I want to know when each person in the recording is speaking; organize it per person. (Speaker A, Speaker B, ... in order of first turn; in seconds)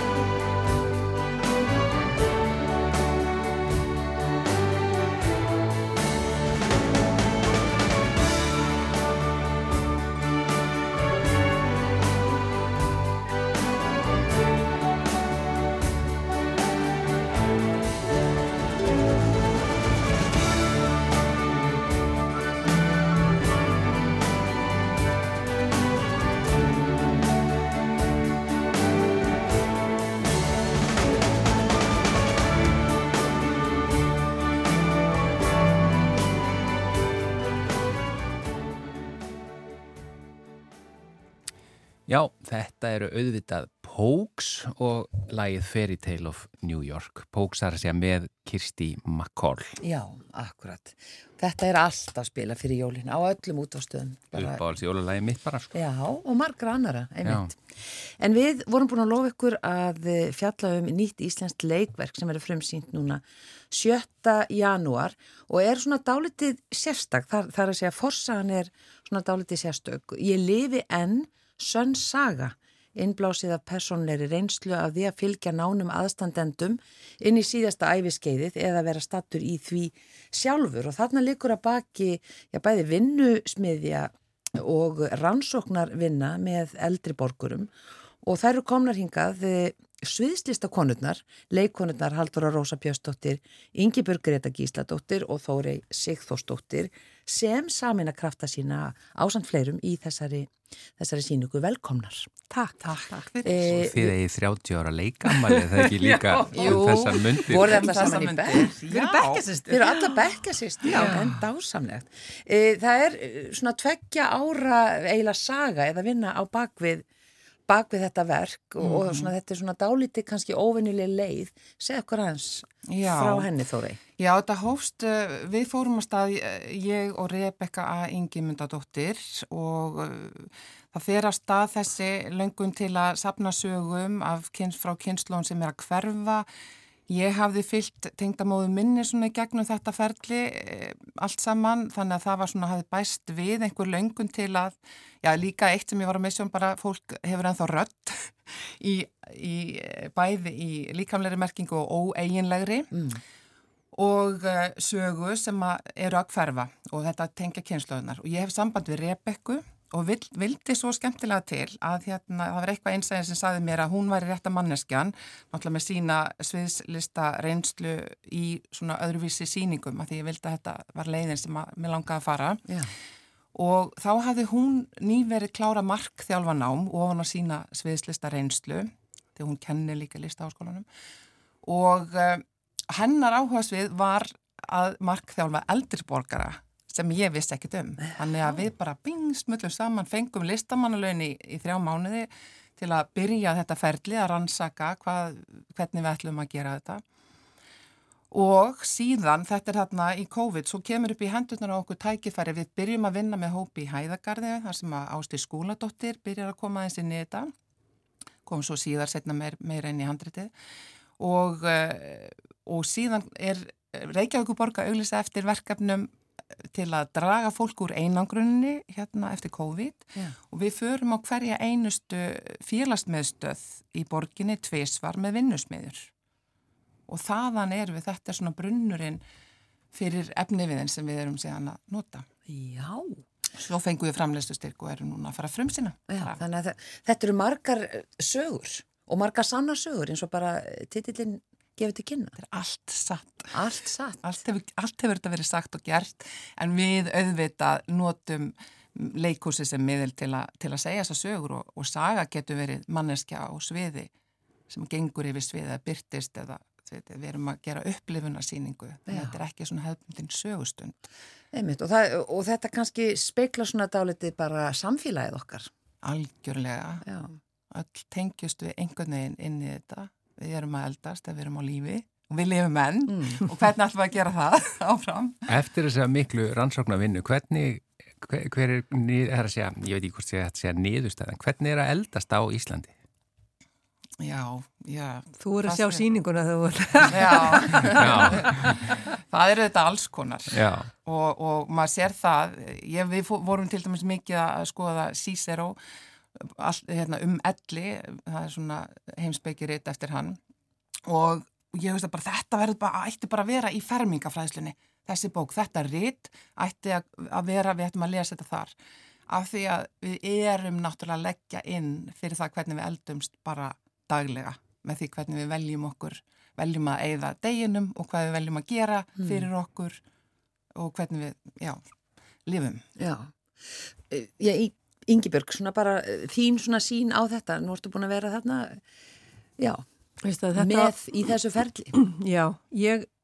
Speaker A: 42.1-49.8, 54.3-55.7, 57.2-57.5, 103.7-107.8, 275.5-282.9, 287.8-288.8, 290.5-290.9
Speaker B: 49.8-54.6, 55.7-87.7, 88.2-102.3, 103.4-104.1, 106.3-108.7, 109.7-117.0, 117.7-124.0, 152.9-153.2, 172.7-172.9, 232.5-233.2, 236.1-242.3, 243.5-244.2, 259.1-259.4, 261.5-265.7, 267.0-267.4, 319.2-319.5, 323.0-328.8, 329.6-329.8, 330.5-331.9
Speaker C: 102.5-103.3, 108.9-109.8, 285.4-288.3, 330.2-330.9, 331.9-333.1
Speaker D: 102.8-103.8, 106.3-109.5, 110.8-111.4, 118.8-119.3, 122.8-123.5, 124.2-136.5, 137.1-153.0, 153.9-172.6, 173.5-180.8, 181.6-197.0, 198.3-207.5, 208.4-210.5, 211.2-216.1, 216.7-226.1, 227.1-229.2, 229.9-232.2, 233.6-236.4, 242.4-243.6, 244.2-254.1, 254.7-261.0, 266.0-267.0, 267.7-275.4, 284.2-286.0, 287.1-295.8, 296.4-300.4, 301.1-308.7, 309.3-320.0, 320.7-321.8, 322.4-322.8